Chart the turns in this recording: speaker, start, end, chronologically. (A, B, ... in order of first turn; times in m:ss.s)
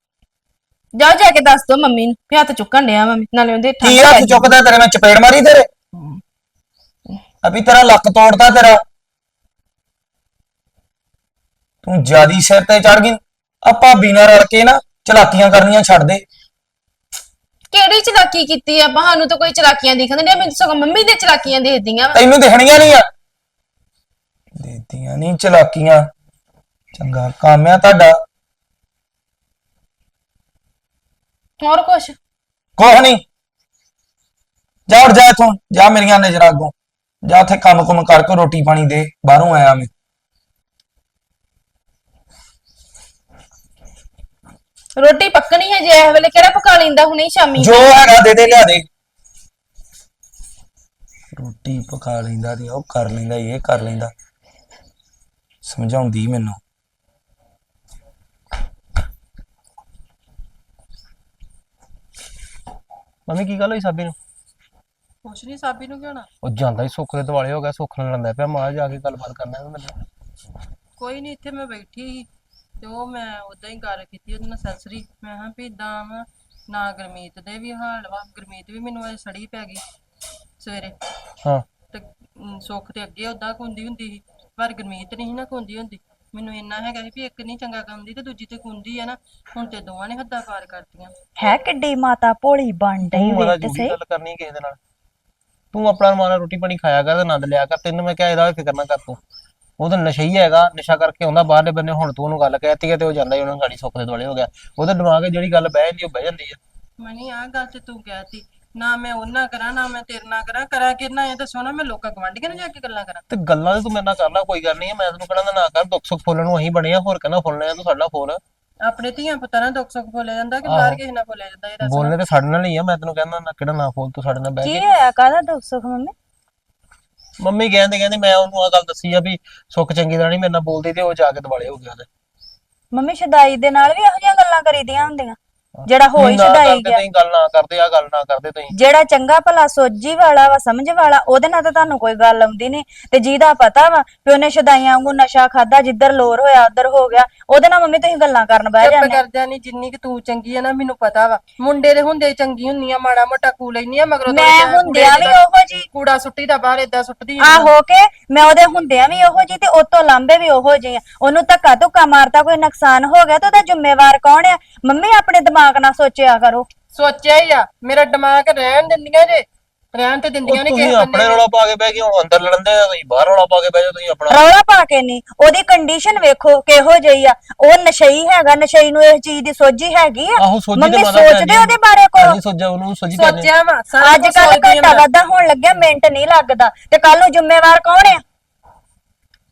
0:00.9-0:04.5 A
0:03.8-0:05.7 B
0:07.4-0:08.8 B
0:11.8-0:16.2 B
0:17.7-0:22.2 A
0:22.1-0:23.0 B
0:24.6-0:26.0 B
0:26.9-0:28.2 B
0:31.6-0:32.2 A
0:32.8-0:33.2 B
0:34.9-0:36.7 B
0:37.2-0:39.9 B
0:45.0-0:48.0 A
0:47.5-0:48.8 B
0:51.4-0:54.1 B
0:55.6-0:56.6 B
1:03.3-1:04.1 C
1:05.2-1:06.3 D
1:06.4-1:10.0 C
1:11.0-1:12.3 D
1:12.8-1:19.8 D
1:20.6-1:20.9 D
1:21.9-1:31.1 D
1:31.4-1:34.0 E
1:33.0-1:34.8 C
1:35.7-1:39.2 C
1:39.8-1:46.6 C
1:47.0-1:53.2 D
1:53.3-1:58.4 C
1:58.8-2:02.2 D
2:00.6-2:01.0 C
2:01.8-2:04.8 C
2:04.6-2:06.1 E
2:07.4-2:12.1 C
2:12.9-2:17.0 E
2:15.8-2:18.7 C
2:18.7-2:29.2 E
2:28.8-2:35.4 D
2:34.3-2:35.9 E
2:35.9-2:37.7 D
2:37.4-2:46.6 E
2:46.9-2:51.4 D
2:50.4-2:54.4 C
2:54.3-3:02.4 E
3:00.4-3:03.5 C
3:03.1-3:05.0 D
3:04.0-3:08.2 E